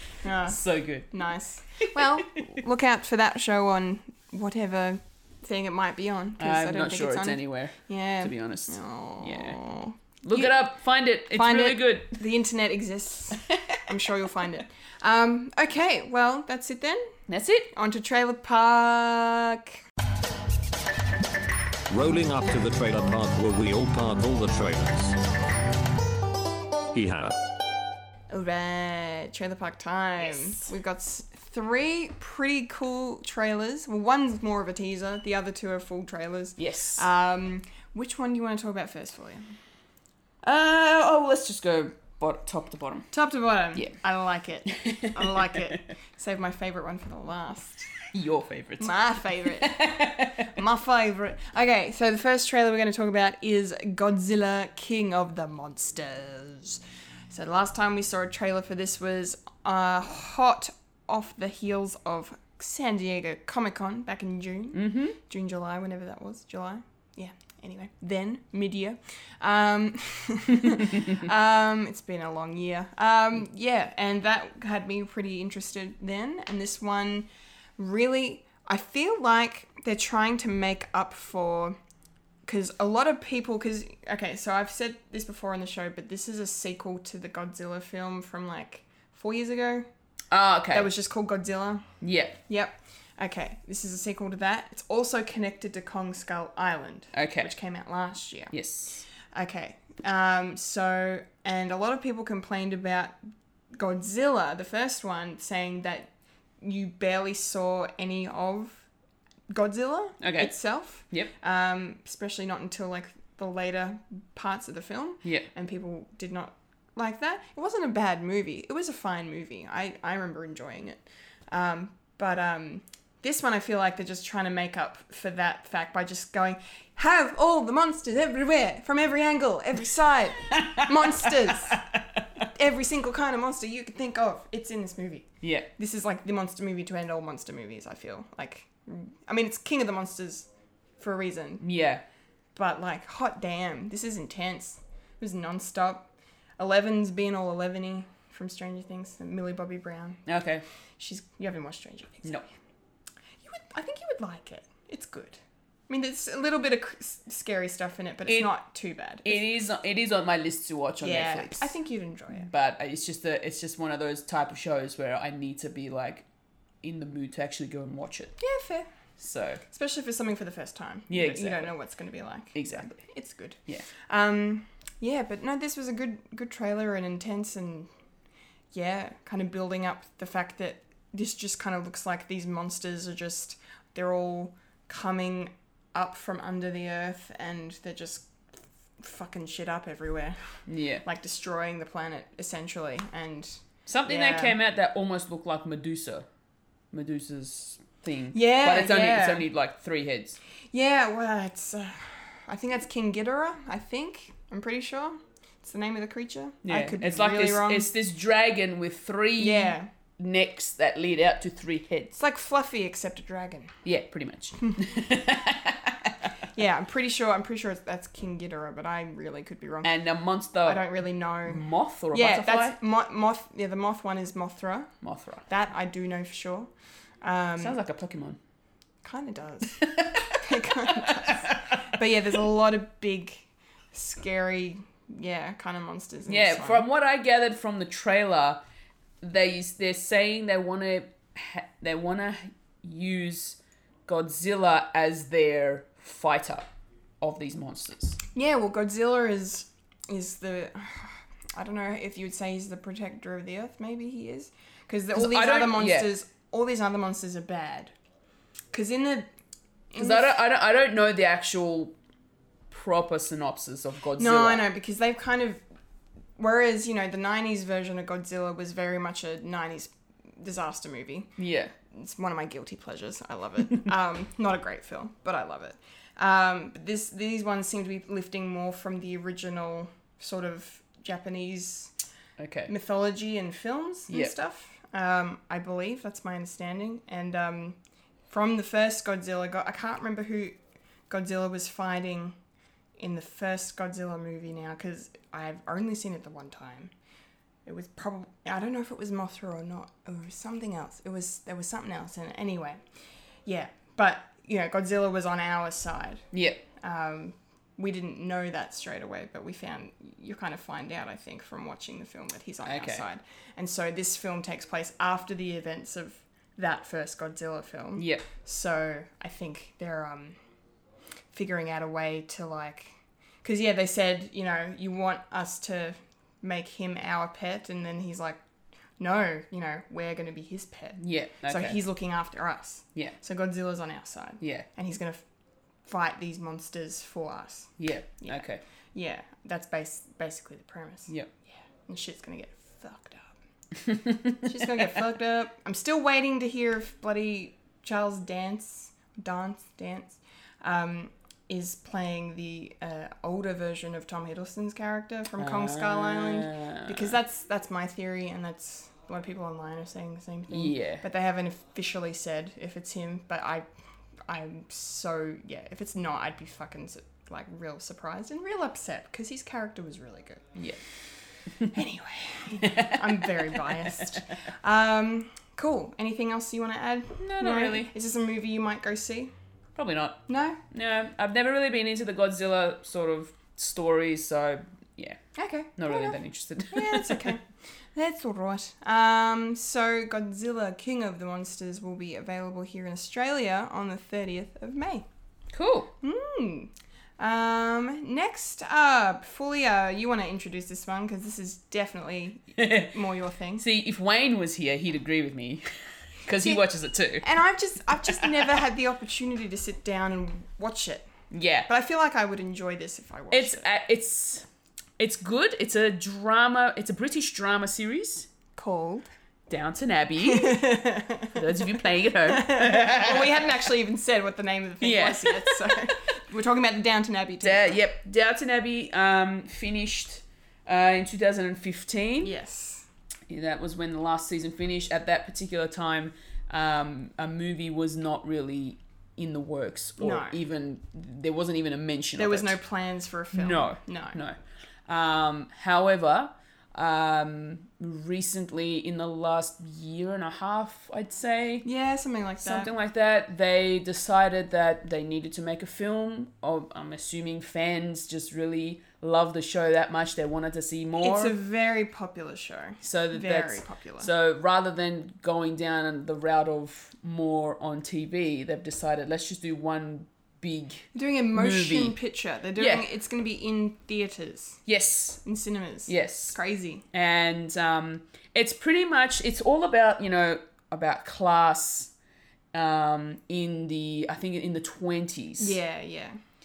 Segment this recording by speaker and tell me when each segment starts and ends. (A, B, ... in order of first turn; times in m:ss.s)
0:00.2-0:00.6 A
0:00.4-0:01.1 B
0:01.1-0:10.5 A
0:06.4-0:09.6 B
0:10.2-0:12.2 B
0:11.3-0:17.1 A
0:17.3-0:17.7 B
0:17.7-0:19.8 A
0:21.9-0:25.2 C
0:26.9-0:27.4 C
0:28.3-0:39.5 A
0:36.6-0:37.0 B
0:40.4-0:43.1 B
0:43.1-0:47.9 A
0:44.7-0:45.7 B
0:48.1-0:49.0 B
0:48.8-0:49.8 A
0:49.6-0:50.5 B
0:50.4-1:21.8 A
1:04.8-1:05.2 B
1:22.4-1:29.9 A
1:30.3-1:30.9 B
1:30.7-1:31.9 A
1:32.0-1:32.4 B
1:32.5-1:38.6 A
1:37.1-1:37.5 B
1:38.5-1:39.1 B
1:39.3-1:43.2 A
1:43.7-1:46.1 A
1:46.6-1:48.9 A
1:49.5-2:11.8 A
1:50.2-1:51.3 B
2:12.5-2:20.5 A
2:15.4-2:15.7 B
2:21.0-2:21.6 A
2:21.6-2:22.0 B
2:22.6-2:30.2 A
2:30.3-2:30.6 B
2:31.0-2:32.5 A
2:33.4-2:39.4 A
2:38.3-2:38.5 B
2:39.2-2:41.7 B
2:41.0-2:42.5 A
2:42.4-2:46.2 B
2:46.8-2:48.4 B
2:48.4-2:48.9 A
2:49.2-2:49.6 B
2:49.7-2:57.9 A
2:51.1-2:51.7 B
2:52.5-2:53.0 B
2:58.7-3:08.3 A
3:09.0-3:14.6 A
3:10.7-3:11.0 B
3:13.9-3:16.2 B
3:16.9-3:20.4 B
3:18.3-3:19.4 A
3:20.7-3:27.9 A
3:26.6-3:32.2 B
3:29.4-3:29.9 A
3:32.1-3:33.7 A
3:33.8-3:36.3 B
3:36.5-3:39.9 A
3:39.8-3:40.8 B
3:40.6-3:44.9 A
3:41.5-3:42.8 B
3:45.0-3:45.4 B
3:45.5-3:46.7 A
3:47.2-3:47.8 A
3:47.6-3:48.4 B
3:49.0-3:56.8 A
3:49.8-3:50.4 B
3:51.0-3:51.8 B
3:56.3-3:58.6 B
3:59.2-4:06.7 B
4:07.2-4:08.2 B
4:08.4-4:17.9 A
4:15.1-4:16.1 B
4:18.7-4:19.3 A
4:19.9-4:20.3 A
4:20.0-4:21.9 B
4:22.7-4:24.6 B
4:24.2-4:25.6 A
4:26.4-4:31.3 A
4:31.4-4:31.7 B
4:31.9-4:41.9 A
4:42.4-4:42.7 B
4:42.7-4:47.8 A
4:48.3-4:50.6 A
4:51.1-4:52.4 A
4:53.0-4:56.9 A
4:57.6-5:02.8 A
5:03.4-5:06.2 A
5:06.3-5:06.6 B
5:06.8-5:20.4 A
5:12.6-5:13.0 B
5:18.0-5:18.3 B
5:21.3-5:28.4 A
5:29.0-5:35.2 A
5:31.0-5:31.8 B
5:34.4-5:34.7 B
5:35.9-5:41.1 A
5:37.8-5:38.6 B
5:41.9-5:43.4 A
5:43.9-5:44.4 B
5:44.4-6:03.6 A
5:55.4-5:57.1 B
6:00.5-6:01.0 B
6:04.3-6:10.4 A
6:10.6-6:10.8 B
6:11.7-6:19.3 A
6:12.6-6:13.3 B
6:17.2-6:17.9 B
6:19.8-6:25.2 B
6:20.3-6:20.6 A
6:25.4-6:26.2 A
6:25.8-6:27.3 B
6:26.7-6:35.1 A
6:35.5-6:35.9 B
6:36.0-6:43.6 A
6:42.6-6:42.9 B
6:43.6-6:45.6 B
6:46.2-6:47.3 B
6:47.2-6:51.1 A
6:51.3-6:51.7 B
6:51.7-6:53.6 A
6:53.3-6:54.4 B
6:55.0-6:58.3 B
6:58.6-6:59.1 A
6:59.5-7:00.8 B
7:00.2-7:07.8 A
7:01.3-7:03.5 B
7:04.8-7:05.6 B
7:07.4-7:12.3 B
7:12.2-7:12.9 A
7:13.3-7:22.6 B
7:20.0-7:20.4 A
7:22.2-7:24.2 A
7:23.3-7:24.4 B
7:24.9-7:31.6 B
7:31.6-7:32.7 A
7:32.4-7:41.3 B
7:41.0-7:44.1 A
7:42.8-7:52.0 B
7:50.9-7:54.6 A
7:52.6-7:52.8 B
7:54.7-7:55.2 B
7:55.2-7:56.8 A
7:55.9-7:56.4 B
7:56.9-8:01.9 B
8:02.5-8:05.6 B
8:05.4-8:06.2 A